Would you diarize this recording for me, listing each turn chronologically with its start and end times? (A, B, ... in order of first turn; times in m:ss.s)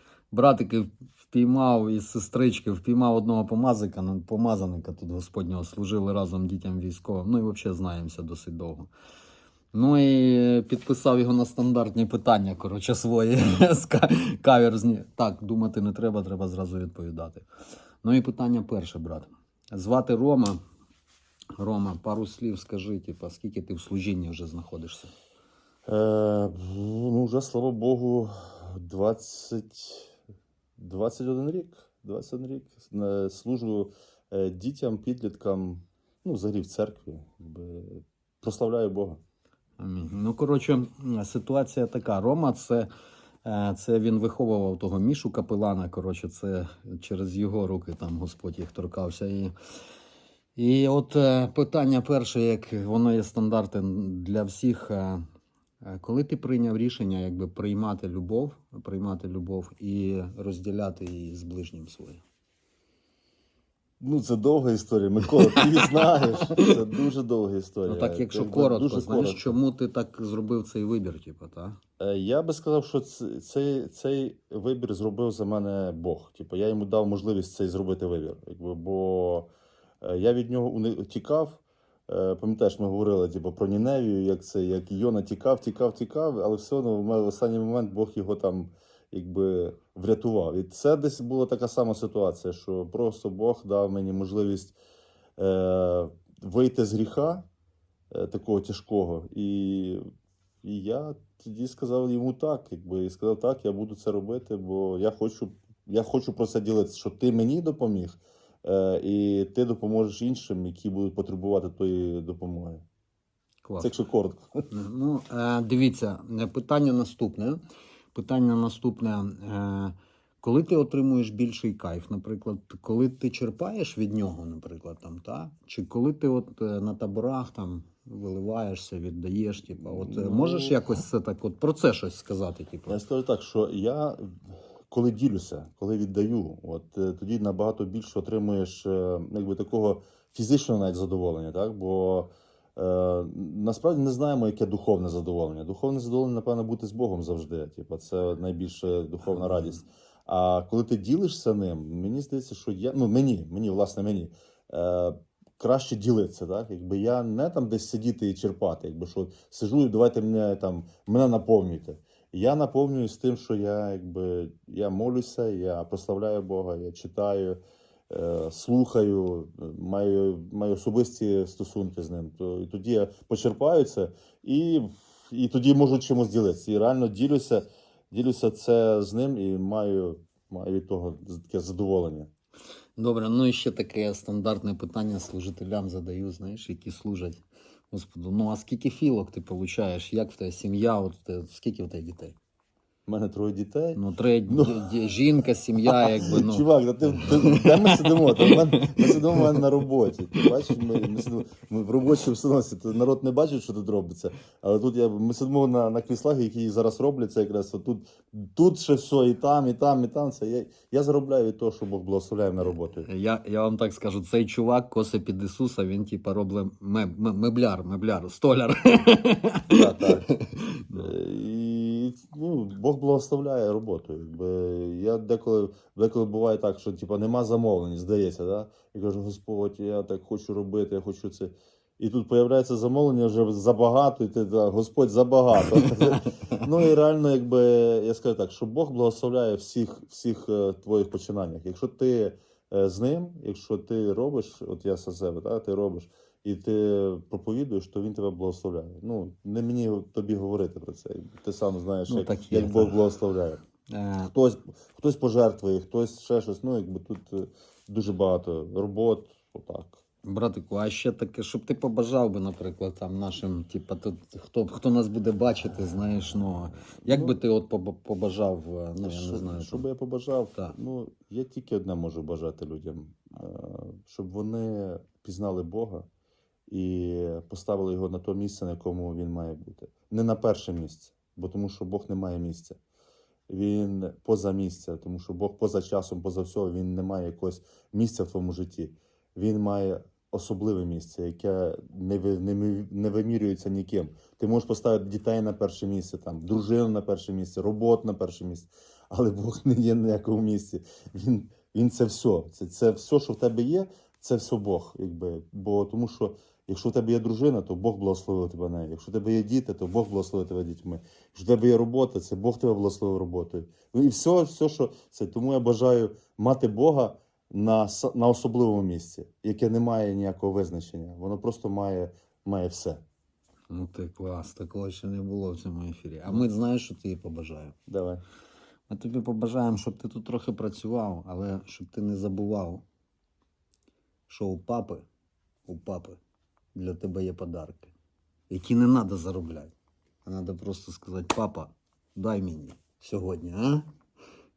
0:00.3-0:08.9 A
0:09.7-0:17.4 A
0:18.0-0:20.6 A
0:21.6-0:25.1 A
0:25.8-0:30.1 B
0:30.8-0:39.2 B
0:39.8-0:42.9 A
0:43.4-0:49.5 A
0:50.6-0:55.2 A
0:55.8-1:02.2 A
1:04.0-1:09.6 B
1:07.9-1:11.8 A
1:12.0-1:19.5 B
1:20.0-1:34.8 B
1:35.4-1:37.4 B
1:38.1-1:40.0 B
1:40.6-1:52.8 B
1:53.6-1:53.9 A
1:53.8-1:54.5 B
1:54.7-1:57.6 A
1:58.1-2:13.0 A
2:09.8-2:10.8 B
2:12.9-2:47.6 B
2:29.2-2:29.8 A
2:48.1-3:02.3 B
3:03.0-3:12.4 A
3:13.0-3:15.0 B
3:13.9-3:19.5 A
3:15.8-3:33.1 B
3:33.0-3:41.1 A
3:39.7-3:40.3 B
3:40.9-4:13.6 B
4:12.1-4:13.0 A
4:13.9-4:14.3 A
4:14.3-4:20.0 B
4:20.2-4:29.8 A
4:27.0-4:27.4 B
4:29.0-4:36.1 B
4:36.7-4:42.8 B
4:43.5-5:23.0 B
5:23.7-5:27.8 A
5:27.9-5:28.2 B
5:28.9-5:32.8 A
5:34.3-5:35.0 A
5:35.7-5:36.2 A
5:36.7-5:37.9 A
5:38.5-5:43.9 A